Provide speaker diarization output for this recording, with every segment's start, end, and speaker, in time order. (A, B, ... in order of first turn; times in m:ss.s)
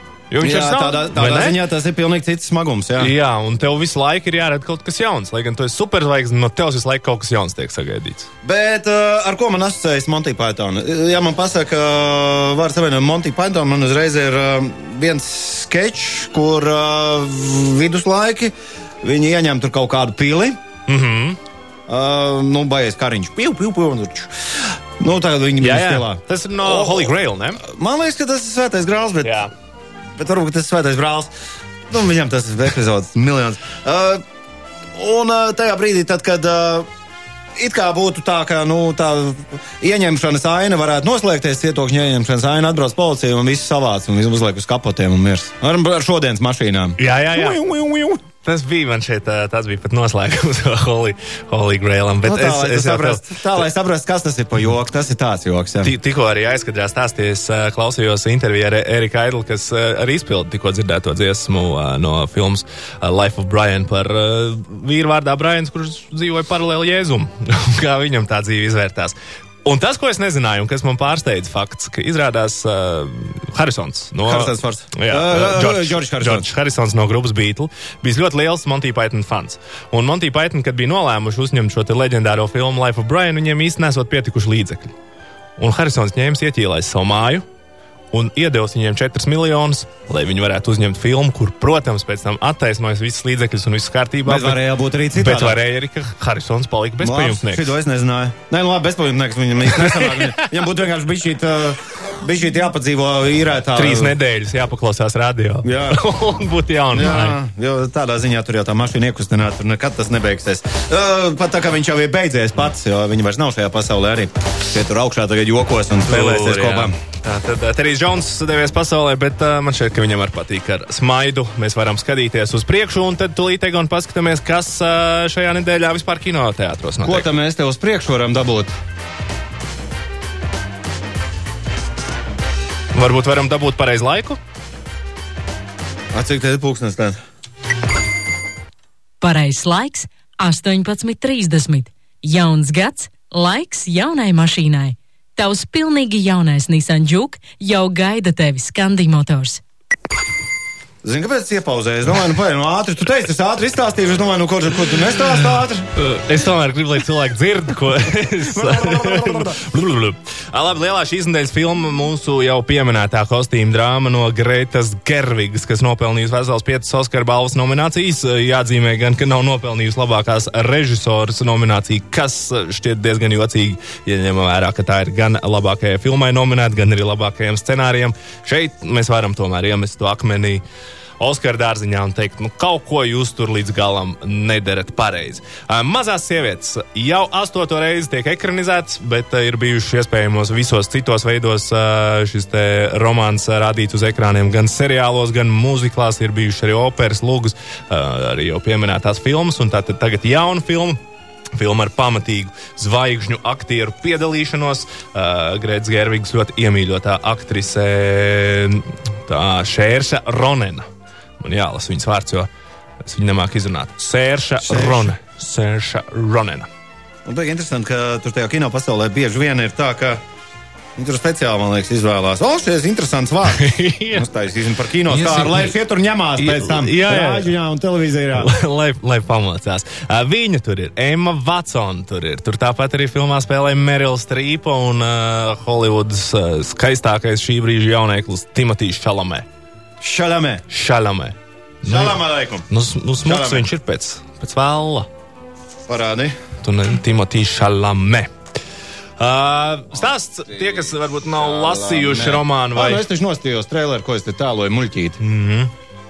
0:00.3-0:01.6 A
0:00.4-0:03.1 B
0:03.0-0:08.3 A
0:08.4-0:20.6 B
0:20.9-0:21.4 A
0:21.9-0:29.4 B
0:25.6-0:27.6 A
0:29.2-0:29.5 A
0:30.2-0:31.3 B
0:31.9-0:34.2 B
0:34.9-0:36.9 B
0:37.6-0:48.2 B
0:47.0-0:47.6 A
0:48.4-0:53.6 A
0:52.2-0:55.9 B
0:55.8-1:24.9 A
1:14.2-1:16.5 B
1:25.6-1:27.4 A
1:28.1-1:34.6 A
1:34.2-1:35.6 B
1:35.1-1:37.6 A
1:37.0-1:44.2 B
1:39.7-1:40.5 A
1:43.7-1:47.4 A
1:45.6-1:46.0 B
1:46.9-1:56.9 B
1:56.1-2:07.3 A
2:07.0-2:08.8 B
2:12.9-2:14.4 A
2:16.1-2:17.2 B
2:19.2-2:29.6 C
2:31.0-2:35.8 B
2:36.0-3:00.6 A
2:38.4-2:39.6 B
3:01.2-3:21.0 A
3:21.5-3:30.9 A
3:31.4-3:32.5 A
3:33.0-3:36.7 A
3:34.6-3:35.1 B
3:37.2-3:40.2 B
3:41.0-3:48.5 B
3:43.5-3:44.3 A
3:45.0-3:45.7 A
3:46.4-3:47.5 A
3:48.3-3:59.5 A
4:00.0-4:00.6 B
4:00.7-4:05.1 A
4:01.8-4:02.6 B
4:03.2-4:03.7 B
4:05.8-4:06.4 B
4:06.6-4:08.3 A
4:09.2-4:13.0 A
4:11.4-4:15.2 B
4:15.2-4:15.7 A